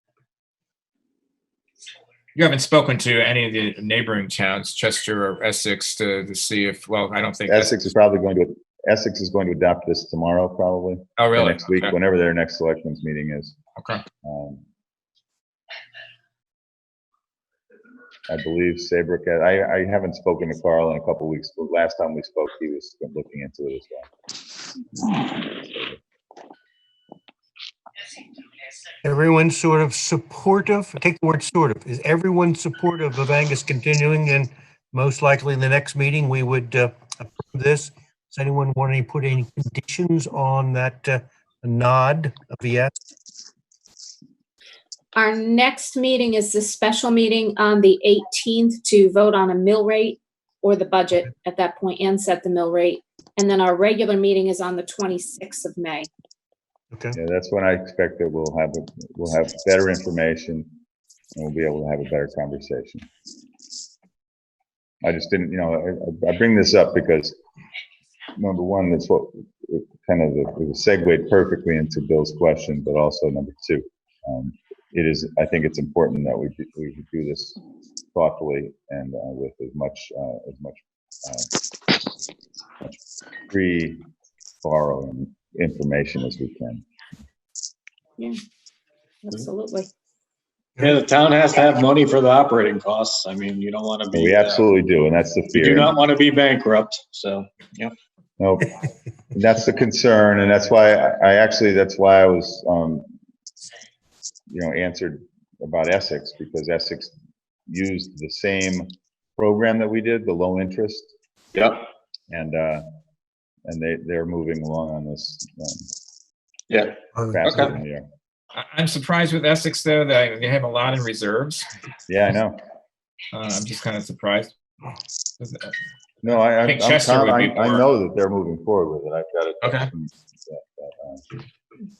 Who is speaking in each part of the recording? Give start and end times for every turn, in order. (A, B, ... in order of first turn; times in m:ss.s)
0:02.4-0:07.8 A
0:07.5-0:13.5 B
0:11.2-0:11.9 A
0:13.8-0:14.0 A
0:14.2-0:14.6 B
0:18.3-0:24.1 B
0:25.0-0:26.0 B
0:29.0-0:42.9 C
0:45.1-0:56.1 D
0:56.9-0:57.2 C
0:57.1-1:00.7 B
1:01.3-1:03.1 B
1:05.0-1:07.4 B
1:08.3-1:17.6 B
1:18.1-1:21.5 B
1:23.5-1:24.0 B
1:24.6-1:26.8 B
1:29.2-1:29.9 D
1:30.8-1:34.6 E
1:34.1-1:35.9 B
1:35.5-1:37.9 E
1:38.4-1:38.8 B
1:39.3-1:43.0 B
1:44.5-1:47.1 B
1:47.7-1:51.1 B
1:51.5-1:51.9 E
1:52.3-1:52.8 B
1:53.6-1:55.8 B
1:56.7-1:57.8 E
1:57.1-1:57.5 C
1:57.3-1:58.0 B
1:58.5-2:01.6 A
2:02.1-2:02.6 B
2:03.3-2:04.5 A
2:05.4-2:05.7 A
2:06.2-2:11.4 B
2:06.6-2:07.8 A
2:09.6-2:09.9 A